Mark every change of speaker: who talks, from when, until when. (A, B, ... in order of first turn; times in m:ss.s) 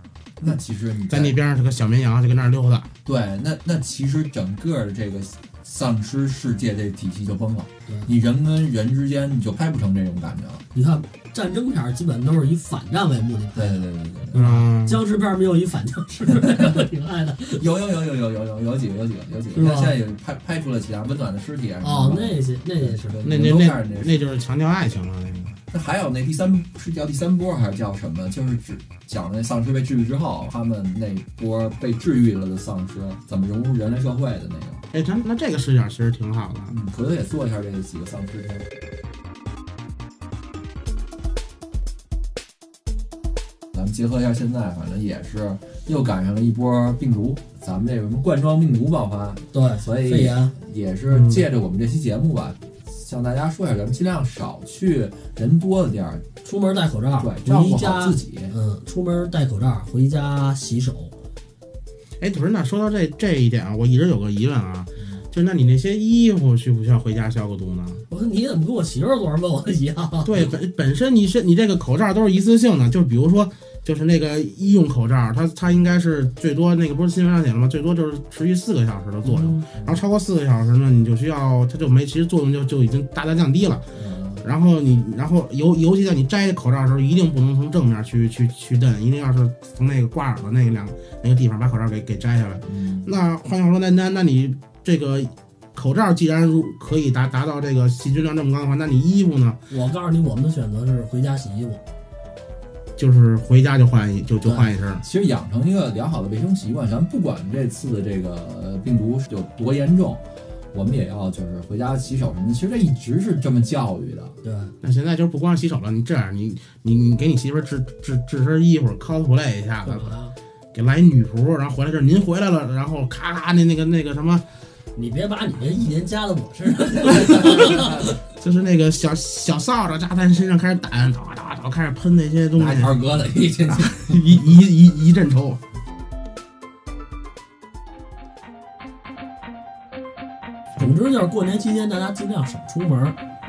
0:00.4-0:01.3 A
0:01.1-0:02.9 B
0:03.0-0:10.6 A
0:10.7-0:13.8 C
0:13.5-0:14.5 A
0:14.3-0:15.0 B
0:14.4-0:17.6 C
0:16.4-0:16.8 A
0:17.5-0:24.2 A
0:19.5-0:19.9 C
0:21.8-0:23.2 C
0:23.2-0:25.6 B
0:25.7-0:34.8 A
0:34.9-0:36.7 B
0:36.7-0:38.6 A
0:43.7-0:56.2 A
0:49.5-0:50.5 C
0:56.4-1:01.1 C
0:57.2-0:58.5 A
1:02.2-1:08.0 B
1:05.0-1:05.2 A
1:08.1-1:10.5 C
1:10.2-1:23.8 B
1:19.2-1:19.7 C
1:23.9-1:24.4 A
1:24.4-1:39.6 B
1:32.6-1:33.1 A
1:39.7-1:41.8 C
1:43.0-1:45.0 B
1:45.0-1:50.2 A
1:50.7-1:54.3 A
1:54.4-1:54.7 C
1:54.8-2:00.2 B
1:59.8-2:00.3 C
2:00.7-2:04.4 B
2:04.9-2:08.1 C
2:06.8-2:08.1 A
2:07.8-2:12.9 B
2:12.5-2:14.4 A
2:13.7-2:15.6 B
2:20.8-2:23.2 C